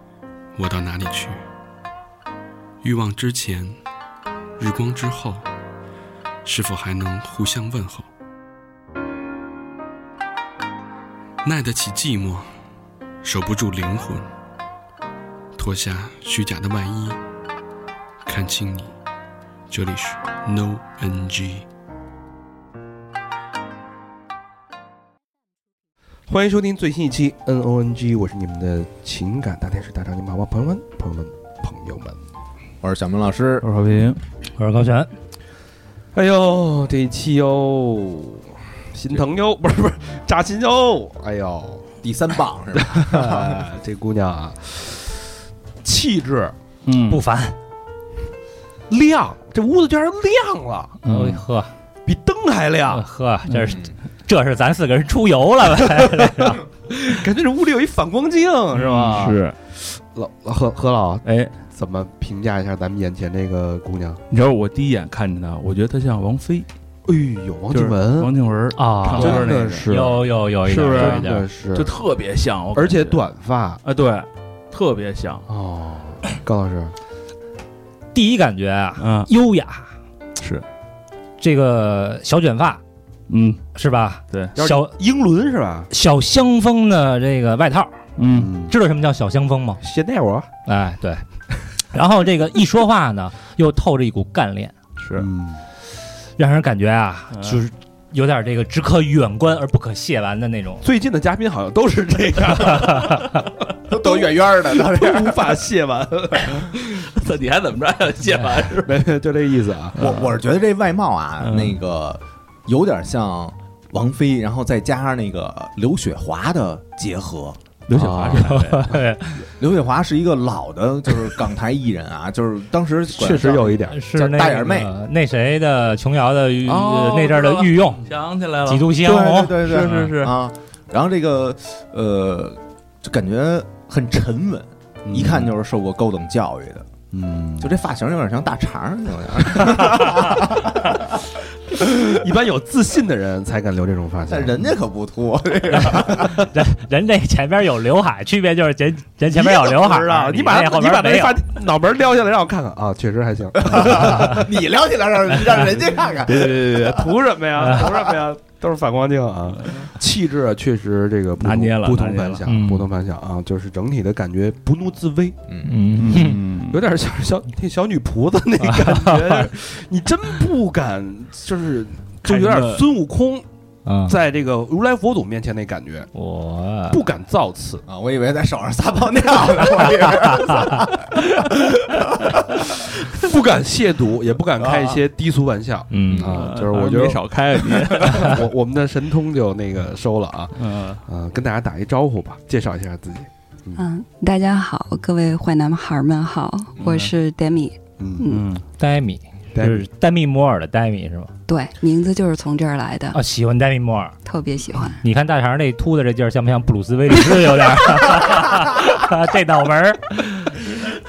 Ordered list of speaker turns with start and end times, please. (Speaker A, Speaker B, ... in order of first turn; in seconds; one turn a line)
Speaker A: 0.6-1.4
Speaker A: 2.8-3.8
Speaker A: 4.6-5.5
Speaker A: 6.5-8.1
Speaker A: 11.4-12.5
Speaker A: 13.2-14.3
Speaker A: 15.6-17.2
Speaker A: 18.3-18.9
Speaker A: 19.7-21.7
Speaker B: 26.3-32.2
Speaker C: 32.8-33.7
Speaker D: 33.6-34.2
Speaker E: 34.6-35.1
Speaker B: 36.1-42.0
Speaker C: 42.0-43.6
Speaker B: 42.7-45.2
Speaker B: 45.8-46.5
Speaker D: 46.9-47.2
Speaker E: 47.1-47.6
Speaker B: 48.9-51.0
Speaker D: 51.0-51.4
Speaker E: 51.1-51.7
Speaker B: 52.0-53.0
Speaker E: 52.9-56.6
Speaker C: 53.7-53.9
Speaker B: 56.9-64.2
Speaker D: 58.8-59.5
Speaker D: 61.2-61.5
Speaker D: 64.3-66.7
Speaker B: 67.1-68.4
Speaker D: 67.7-69.9
Speaker E: 68.8-71.5
Speaker B: 69.1-70.2
Speaker D: 70.7-73.2
Speaker B: 70.9-71.9
Speaker B: 72.7-73.8
Speaker D: 73.8-75.5
Speaker B: 75.5-76.9
Speaker E: 78.1-79.9
Speaker D: 79.0-79.3
Speaker D: 80.4-80.7
Speaker E: 81.4-82.8
Speaker D: 83.3-83.6
Speaker E: 83.8-84.9
Speaker B: 84.6-85.9
Speaker E: 85.9-88.1
Speaker D: 88.2-88.5
Speaker B: 88.3-88.8
Speaker E: 88.7-89.8
Speaker B: 89.8-90.5
Speaker E: 90.7-91.2
Speaker E: 91.9-94.8
Speaker D: 95.0-95.3
Speaker B: 95.2-95.6
Speaker E: 96.4-100.8
Speaker D: 97.3-97.6
Speaker B: 100.8-107.1
Speaker C: 103.9-105.5
Speaker D: 107.0-109.0
Speaker B: 108.8-110.1
Speaker D: 110.0-110.3
Speaker C: 110.0-117.6
Speaker D: 111.4-111.8
Speaker D: 117.9-119.0
Speaker B: 117.9-118.6
Speaker E: 118.4-119.5
Speaker C: 119.6-124.9
Speaker B: 123.1-124.0
Speaker E: 123.9-128.0
Speaker D: 126.7-128.9
Speaker E: 128.6-129.6
Speaker C: 129.0-136.9
Speaker D: 129.6-130.4
Speaker B: 135.1-135.5
Speaker B: 137.1-137.7
Speaker C: 137.6-141.2
Speaker B: 141.8-144.8
Speaker C: 144.3-146.4
Speaker E: 145.8-151.4
Speaker B: 149.3-154.4
Speaker C: 153.6-156.9
Speaker D: 156.3-157.1
Speaker B: 156.9-165.4
Speaker D: 161.4-162.4
Speaker E: 162.5-162.9
Speaker C: 165.5-165.8
Speaker E: 165.7-166.4
Speaker D: 166.0-166.8
Speaker B: 166.7-173.4
Speaker E: 168.6-169.5
Speaker D: 172.3-172.8
Speaker E: 173.9-174.2
Speaker B: 174.1-176.1
Speaker E: 176.2-177.0
Speaker B: 176.9-177.8
Speaker C: 177.9-181.1
Speaker B: 183.1-193.8
Speaker C: 184.6-185.0
Speaker E: 185.9-186.3
Speaker C: 186.1-186.3
Speaker D: 186.3-188.4
Speaker D: 190.6-191.0
Speaker F: 193.8-198.4
Speaker D: 196.8-197.1
Speaker B: 198.0-198.3
Speaker D: 198.3-198.7
Speaker E: 198.8-201.3
Speaker B: 199.5-199.8
Speaker F: 201.5-203.2
Speaker E: 203.1-204.2
Speaker F: 204.3-205.0
Speaker E: 205.0-210.6